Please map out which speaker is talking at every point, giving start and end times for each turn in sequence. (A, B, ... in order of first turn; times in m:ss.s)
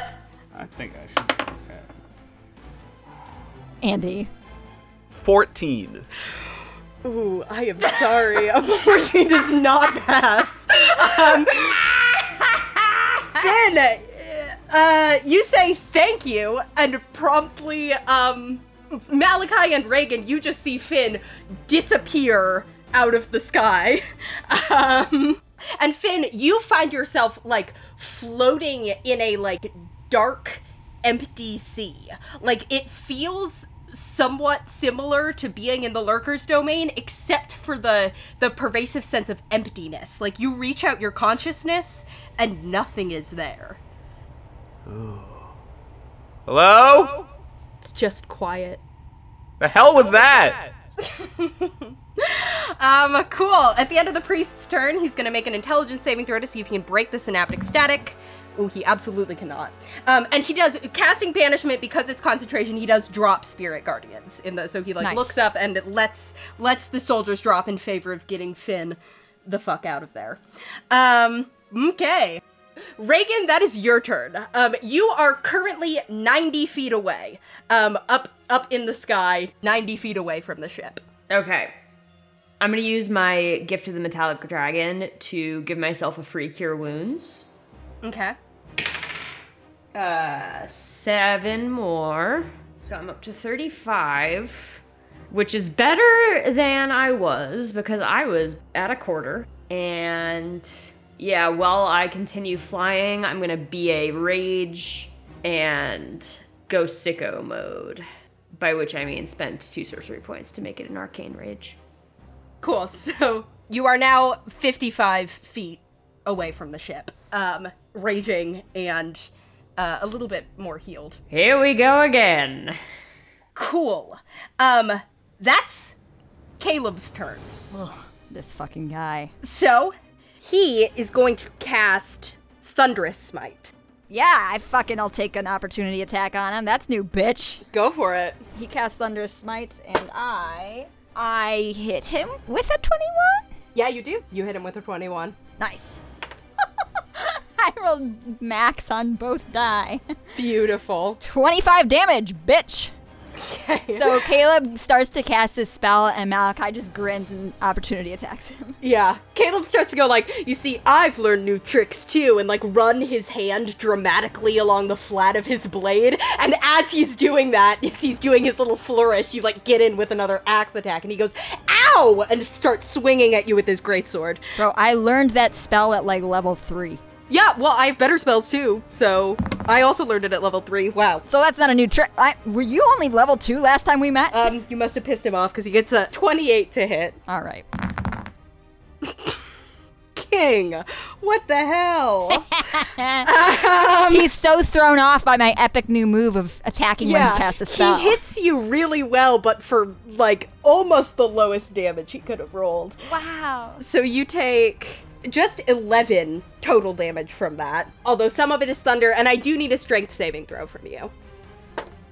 0:00.5-0:01.9 A
0:03.8-0:04.3 B
0:05.1-0:06.1 A
0:07.0-0:43.8 C
0:44.9-0:45.5 A
0:46.5-0:47.2 A
0:47.8-0:48.8 C
0:49.6-0:50.7 A
0:51.0-1:12.4 C
1:05.0-1:05.4 B
1:13.0-1:21.0 C
1:21.3-1:21.7 D
1:22.6-1:27.5 D
1:28.0-1:28.4 C
1:29.9-1:48.0 D
1:48.6-1:51.8 D
1:52.6-2:01.2 C
2:01.3-2:02.8 D
2:03.6-2:06.0 C
2:06.6-2:07.5 C
2:07.7-2:09.3 B
2:09.4-2:13.7 C
2:14.1-2:17.6 B
2:17.7-2:18.4 C
2:18.6-2:23.5 B
2:23.8-2:25.4 C
2:25.6-2:26.0 B
2:27.2-2:30.0 B
2:30.4-2:31.2 C
2:31.2-2:32.9 B
2:33.4-2:34.2 C
2:33.9-2:38.8 B
2:38.8-2:54.4 C
2:54.6-2:57.0 B
2:57.3-3:01.2 C
3:01.3-3:04.5 B
3:04.3-3:07.2 C
3:07.3-3:07.7 B
3:09.0-3:09.4 C
3:10.2-3:12.4 C
3:12.3-3:13.3 B
3:13.2-3:14.3 C
3:14.1-3:18.2 B
3:17.0-3:23.0 C
3:23.0-3:23.8 B
3:23.8-3:31.1 C